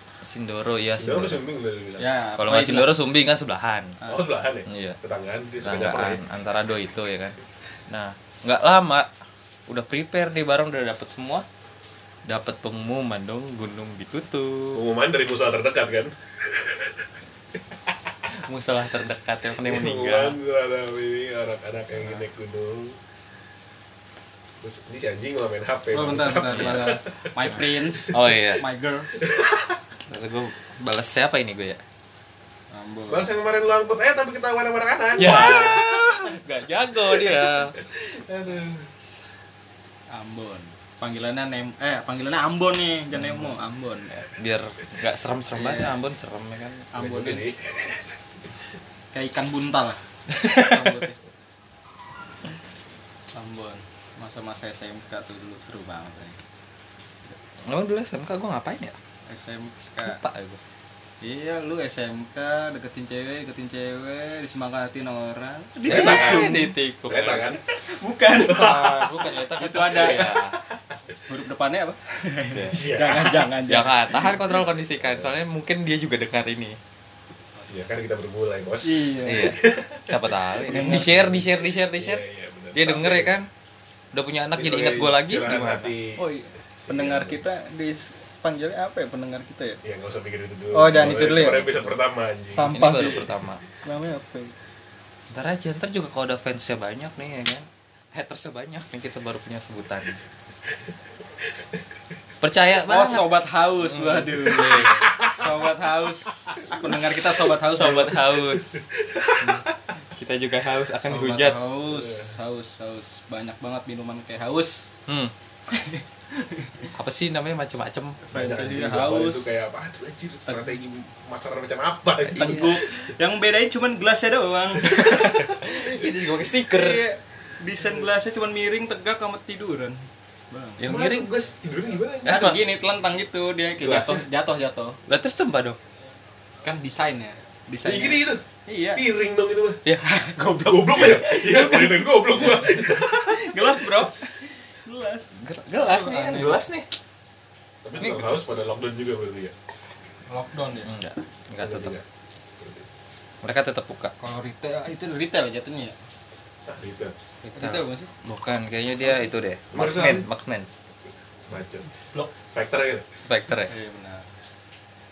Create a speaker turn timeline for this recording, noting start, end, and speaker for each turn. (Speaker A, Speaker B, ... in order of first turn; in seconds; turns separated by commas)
Speaker A: 0.2-1.4, Speaker B: 1.0-2.1, Speaker C: 2.0-3.0, Speaker A: 2.4-4.0, Speaker C: 4.0-4.3, Speaker B: 4.1-6.2, Speaker A: 4.7-5.0, Speaker A: 5.6-7.4, Speaker A: 7.9-9.1, Speaker A: 9.7-11.5, Speaker A: 12.3-14.8, Speaker B: 14.8-17.1, Speaker A: 18.3-20.4, Speaker B: 19.6-23.0, Speaker B: 24.6-28.2, Speaker C: 25.9-29.1, Speaker A: 26.4-26.8, Speaker A: 28.1-28.6, Speaker B: 29.2-29.8, Speaker A: 30.1-31.8, Speaker C: 32.7-33.3, Speaker B: 33.1-36.2, Speaker A: 35.2-37.8, Speaker B: 37.0-38.9, Speaker C: 40.1-44.3, Speaker A: 43.1-43.5, Speaker A: 44.4-46.9, Speaker C: 45.5-46.0, Speaker C: 46.9-47.5, Speaker B: 47.0-48.2, Speaker C: 49.1-51.2, Speaker A: 50.3-50.8, Speaker C: 53.3-56.4, Speaker A: 57.7-59.0, Speaker C: 59.3-60.2, Speaker A: 60.0-60.6, Speaker C: 61.2-66.7, Speaker B: 65.9-67.6, Speaker A: 65.9-67.6, Speaker C: 67.8-70.4, Speaker B: 68.3-68.9, Speaker A: 68.4-70.6, Speaker B: 70.2-70.9, Speaker C: 71.2-74.3, Speaker A: 72.5-72.8, Speaker B: 72.7-73.5, Speaker A: 73.7-76.8, Speaker B: 74.4-75.3, Speaker B: 77.7-83.4, Speaker C: 78.8-79.6, Speaker A: 79.2-83.5, Speaker C: 80.7-81.4, Speaker A: 84.1-85.9, Speaker B: 84.5-86.2, Speaker C: 86.2-89.8, Speaker B: 86.8-87.4, Speaker B: 89.8-92.7, Speaker C: 90.7-91.7, Speaker C: 92.5-93.3, Speaker A: 92.6-93.6, Speaker C: 93.8-94.5, Speaker A: 95.3-100.2, Speaker A: 102.4-103.3, Speaker C: 102.8-108.2, Speaker A: 103.8-105.2, Speaker B: 104.4-105.7, Speaker B: 106.5-107.3, Speaker A: 107.6-108.8, Speaker B: 108.5-109.7, Speaker A: 110.1-111.6, Speaker C: 111.1-114.9, Speaker B: 111.9-112.3, Speaker A: 115.1-115.3, Speaker C: 115.7-116.9, Speaker A: 116.9-118.2, Speaker C: 118.3-119.5, Speaker B: 118.3-122.8, Speaker C: 122.3-125.2, Speaker A: 122.3-122.7, Speaker A: 124.9-127.0, Speaker B: 125.0-125.8, Speaker C: 126.6-130.0, Speaker C: 130.5-130.9, Speaker A: 130.8-131.3, Speaker B: 130.8-132.5, Speaker A: 132.2-132.6, Speaker C: 132.3-135.0, Speaker B: 133.8-134.2, Speaker A: 135.1-135.8, Speaker C: 136.6-139.1, Speaker B: 137.8-139.8, Speaker A: 139.8-140.2, Speaker C: 140.0-146.6, Speaker B: 140.6-144.1, Speaker A: 145.3-146.9, Speaker B: 147.8-149.6, Speaker A: 148.0-148.4, Speaker C: 150.3-150.9, Speaker A: 150.8-151.9, Speaker B: 151.6-152.0, Speaker B: 152.6-152.8, Speaker A: 153.4-154.1, Speaker C: 154.2-156.0, Speaker B: 156.7-157.2, Speaker C: 157.5-158.1, Speaker A: 157.5-160.7, Speaker B: 159.7-160.3, Speaker B: 161.5-163.1, Speaker A: 163.2-163.7, Speaker C: 163.7-164.3